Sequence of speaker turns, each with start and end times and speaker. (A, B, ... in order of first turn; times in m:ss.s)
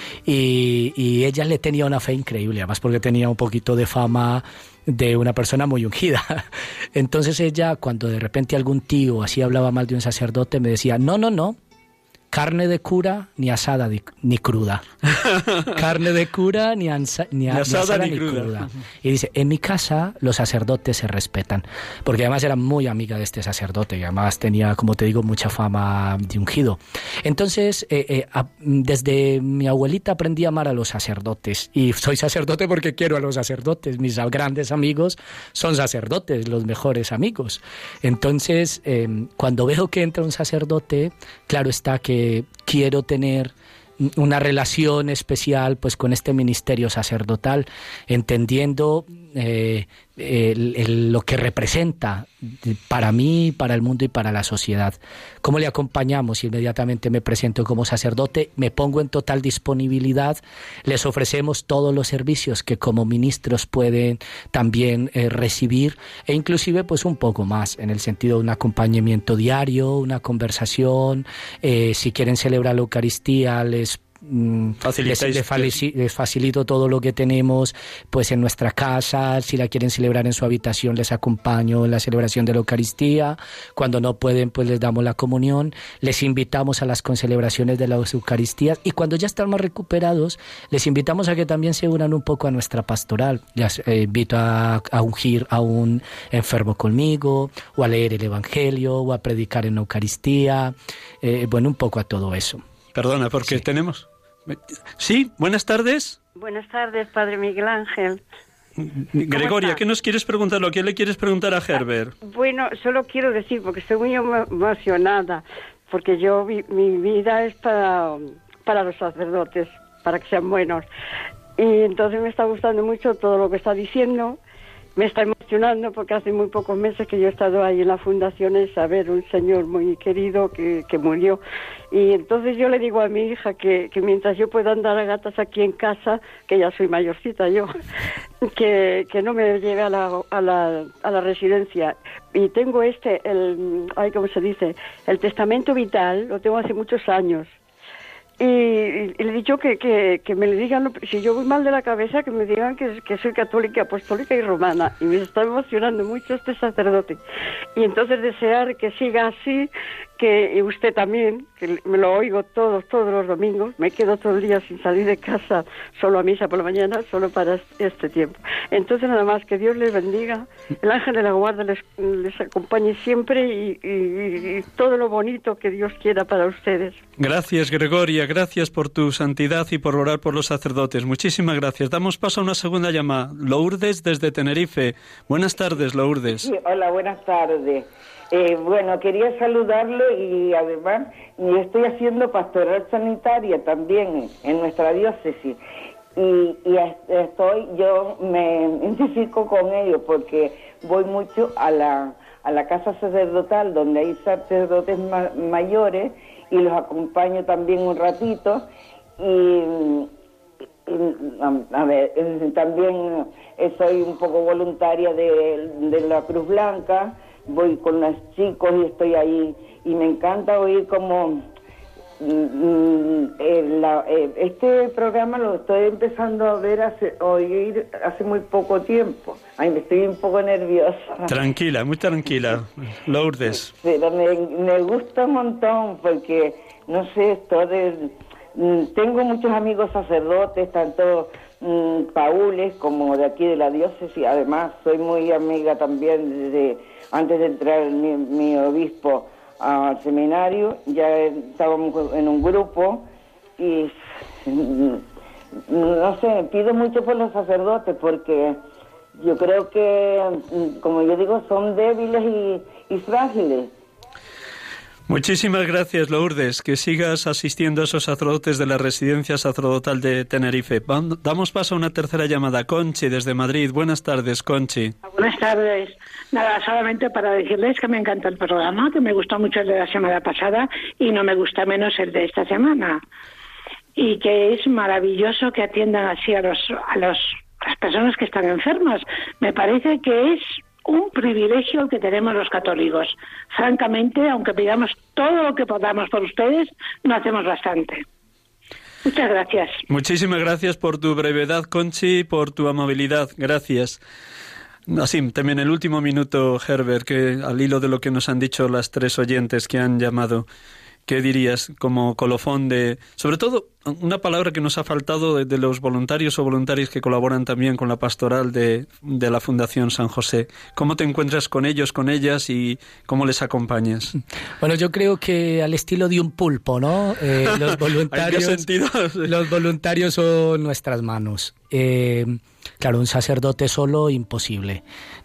0:00.2-0:11.6 A
0:12.3-0:14.8 A
0:15.2-0:15.7 B
0:15.7-1:42.6 A
0:17.5-0:18.7 B
1:14.8-1:15.8 B
1:42.9-1:46.2 B
1:46.4-1:48.2 C
1:48.8-1:52.1 B
1:49.3-1:49.8 C
1:52.2-2:00.8 C
2:01.6-2:04.4 C
2:05.0-2:17.7 C
2:18.4-2:27.5 C
2:28.4-2:37.2 C
2:37.8-2:57.0 C
2:57.2-3:06.5 B
3:06.2-3:15.6 D
3:16.1-3:28.7 D
3:29.2-3:30.1 D
3:30.8-3:41.5 D
3:42.2-3:51.4 D
3:51.3-3:53.7 B
3:53.7-4:15.0 D
4:15.7-4:18.6 D
4:19.2-4:23.7 D
4:25.1-4:35.0 B
4:35.1-4:43.0 E
4:44.0-4:58.0 E
4:59.0-4:59.8 E
4:59.9-5:04.0 B
5:04.9-5:10.4 B
5:11.1-5:24.1 B
5:24.6-5:28.6 A
5:27.5-5:29.3 B
5:29.2-5:34.8 A